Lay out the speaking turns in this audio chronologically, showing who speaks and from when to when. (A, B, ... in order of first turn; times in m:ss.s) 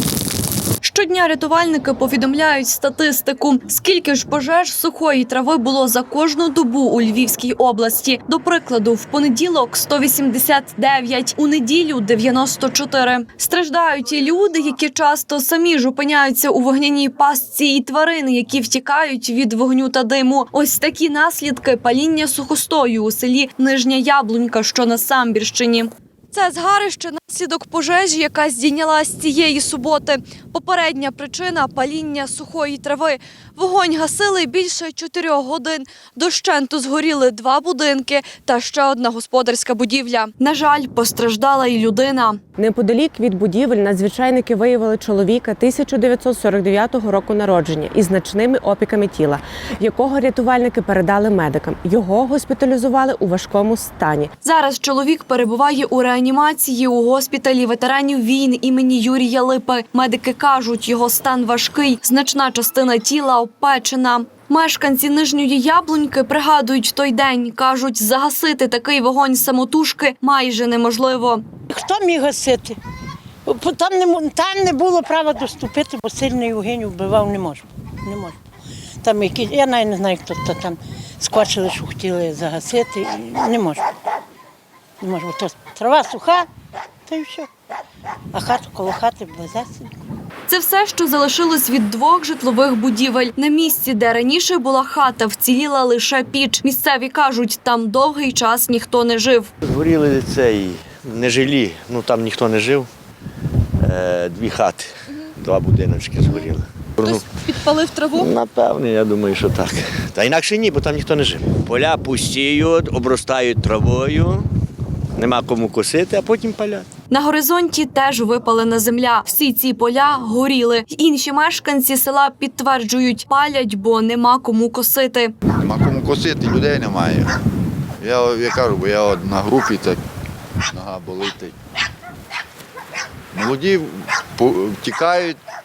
0:00.8-0:42.4 A
0:42.6-0:54.3 B
0:54.4-1:11.4 A
1:11.7-1:12.8 C
1:13.4-1:18.4 C
1:19.0-1:23.8 C
1:25.0-1:26.4 C
1:27.1-1:27.5 C
1:28.3-1:29.9 C
1:30.5-1:39.5 A
1:39.6-1:42.9 D
1:43.8-1:47.3 D
1:47.0-1:48.3 A
1:48.1-1:54.5 D
1:55.2-1:56.9 D
1:57.1-2:05.3 A
2:05.7-2:06.6 E
2:08.0-2:10.0 E
2:10.7-2:11.5 E
2:14.4-2:14.7 E